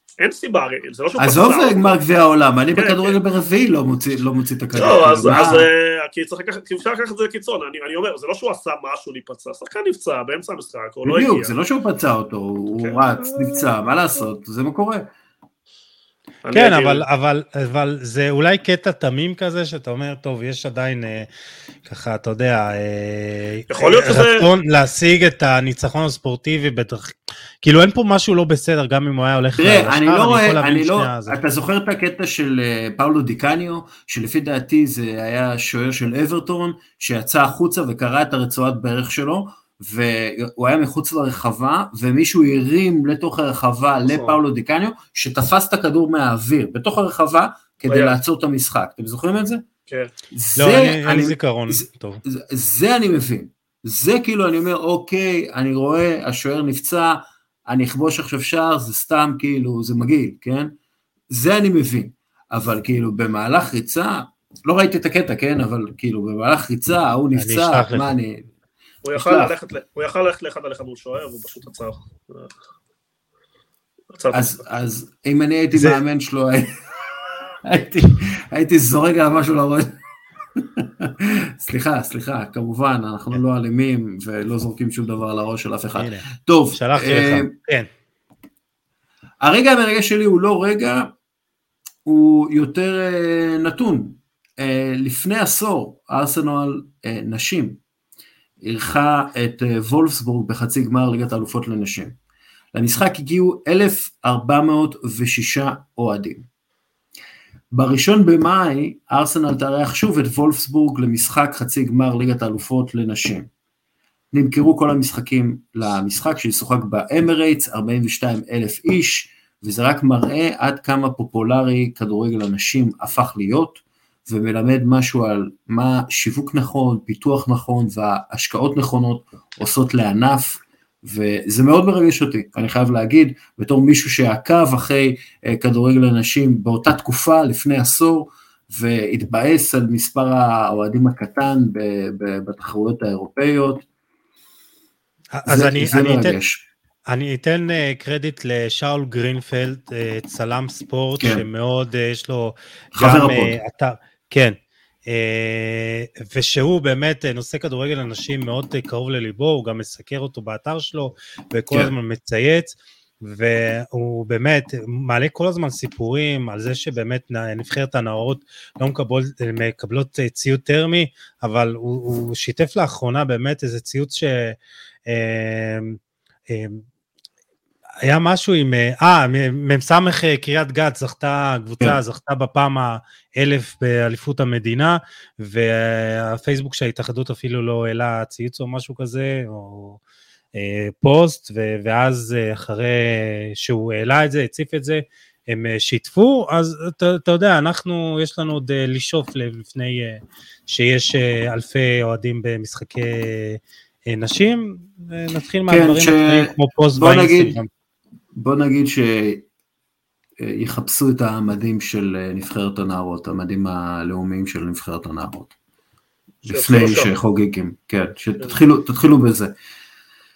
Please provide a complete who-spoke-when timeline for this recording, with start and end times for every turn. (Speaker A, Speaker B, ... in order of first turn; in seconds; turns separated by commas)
Speaker A: 0.2-2.0, Speaker B: 1.2-5.7, Speaker A: 2.8-3.2, Speaker A: 4.8-11.5, Speaker B: 11.1-15.1, Speaker A: 12.7-13.0, Speaker A: 16.4-17.1, Speaker C: 16.5-21.3, Speaker C: 21.9-31.4, Speaker A: 23.7-24.5, Speaker B: 29.6-49.6, Speaker A: 44.1-44.4, Speaker A: 47.9-48.2, Speaker B: 50.3-60.7, Speaker C: 50.6-52.2, Speaker B: 61.3-68.5, Speaker C: 67.4-68.1, Speaker A: 69.0-72.5, Speaker B: 69.1-69.5, Speaker A: 74.1-74.5, Speaker B: 74.3-76.7, Speaker C: 75.7-76.0, Speaker B: 77.6-80.0, Speaker B: 80.6-87.5, Speaker C: 86.0-87.9, Speaker B: 89.4-91.1, Speaker B: 92.0-97.8, Speaker B: 98.6-102.2, Speaker B: 102.7-106.5, Speaker B: 107.7-113.5, Speaker B: 114.3-143.8, Speaker C: 145.3-146.4, Speaker B: 145.4-146.6, Speaker C: 147.1-176.8, Speaker B: 151.2-151.4, Speaker B: 152.9-153.6, Speaker C: 178.0-190.0, Speaker C: 190.6-207.7, Speaker B: 205.7-207.6, Speaker B: 208.3-209.5, Speaker B: 210.4-215.5, Speaker B: 216.5-219.5, Speaker A: 216.5-217.1